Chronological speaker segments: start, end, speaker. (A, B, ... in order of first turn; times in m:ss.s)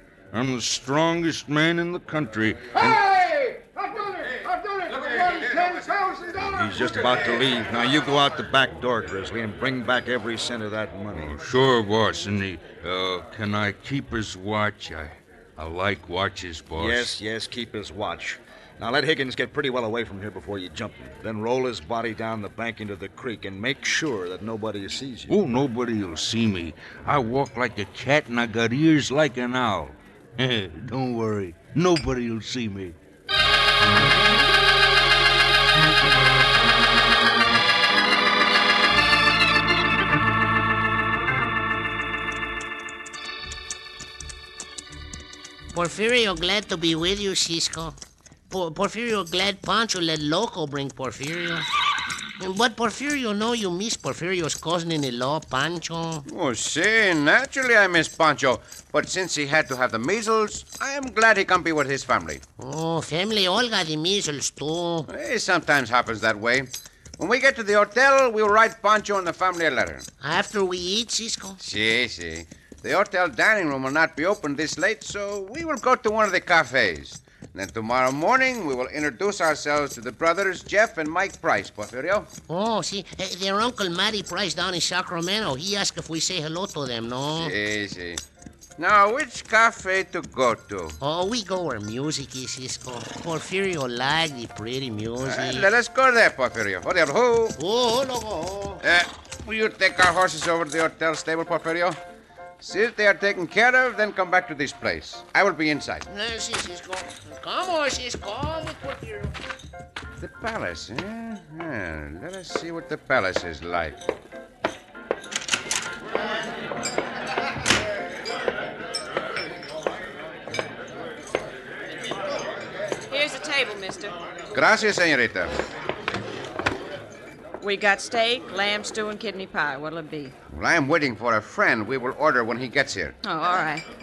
0:00.3-0:03.0 A
0:03.0-0:06.5 B
0:06.4-0:11.4 C
0:11.1-0:17.2 A
0:16.8-0:25.3 C
0:25.3-0:33.0 A
0:45.7-0:48.0 D
0:48.5-0:51.7 D
0:52.4-0:56.2 D
0:56.2-1:02.4 E
1:02.6-1:05.1 D
1:05.1-1:10.0 E
1:10.2-1:11.6 D
1:11.6-1:22.3 E
1:22.5-1:27.6 D
1:27.4-1:28.2 E
1:28.8-1:31.0 E
1:31.0-1:35.7 D
1:35.2-1:37.6 E
1:37.6-1:38.8 D
1:38.8-1:42.0 E
1:42.6-1:46.1 E
1:46.1-1:49.4 D
1:50.2-1:54.0 E
2:03.1-2:04.2 F
2:04.5-2:05.6 E
2:07.6-2:10.3 F
2:10.5-2:13.2 E
2:13.2-2:13.8 F